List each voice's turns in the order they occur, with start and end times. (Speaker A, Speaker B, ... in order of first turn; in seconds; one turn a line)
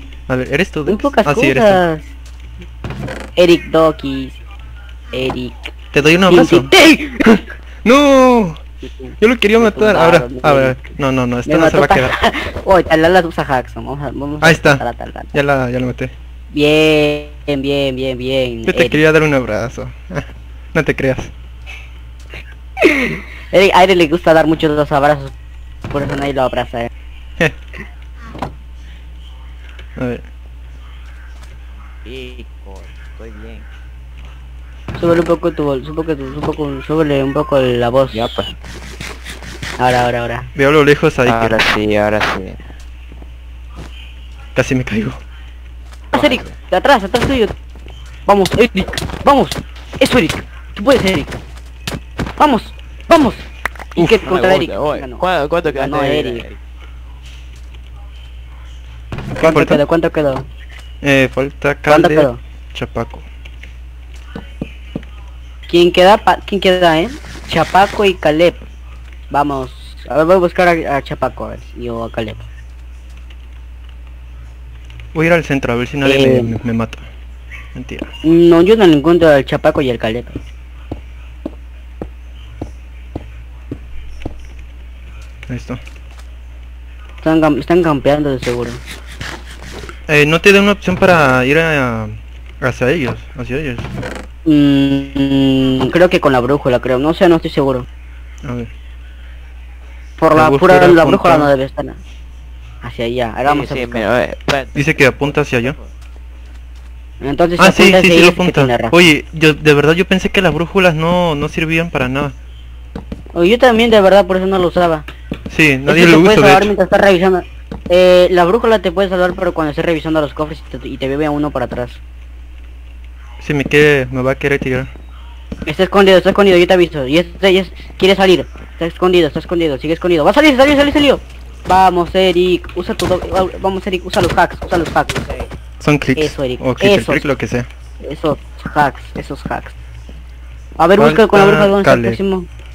Speaker A: 0.3-1.8
Speaker B: 0.8-2.1
Speaker B: 3.4-4.4
Speaker B: 5.1-5.7
Speaker A: 5.9-6.7
Speaker B: 6.3-7.4
Speaker A: 7.8-8.6
Speaker B: 8.9-15.3
Speaker A: 9.2-12.1
Speaker A: 14.4-14.8
Speaker A: 15.3-16.1
Speaker B: 16.5-19.0
Speaker A: 18.7-21.3
Speaker B: 22.8-25.3
Speaker B: 25.9-26.9
Speaker A: 30.0-30.2
Speaker C: 32.0-33.7
Speaker B: 35.0-38.3
Speaker C: 38.1-38.5
Speaker B: 39.8-40.5
Speaker A: 40.5-41.6
Speaker C: 41.2-42.6
Speaker A: 44.5-45.2
Speaker C: 46.1-46.5
Speaker B: 46.1-47.5
Speaker B: 48.3-51.3
Speaker B: 52.4-56.5
Speaker C: 54.2-56.6
Speaker B: 59.4-60.4
Speaker A: 59.4-59.8
Speaker A: 61.0-63.2
Speaker B: 61.9-62.4
Speaker B: 65.7-68.6
Speaker B: 69.3-72.4
Speaker A: 75.1-77.0
Speaker B: 76.0-76.5
Speaker A: 77.7-78.1
Speaker B: 78.2-80.4
Speaker A: 85.5-85.8
Speaker B: 87.2-88.8
Speaker A: 90.1-93.9
Speaker B: 94.5-97.8
Speaker B: 100.2-102.0
Speaker A: 100.3-101.5
Speaker B: 102.8-104.1
Speaker C: 103.4-105.9
Speaker A: 104.7-105.8
Speaker B: 107.2-109.0
Speaker A: 107.6-112.3
Speaker B: 113.3-115.0
Speaker A: 115.5-116.7
Speaker B: 115.9-122.0
Speaker A: 123.4-124.9
Speaker B: 125.7-135.2
Speaker A: 135.8-137.7
Speaker B: 136.2-137.2
Speaker B: 138.0-139.8
Speaker B: 140.8-142.4
Speaker A: 141.0-142.2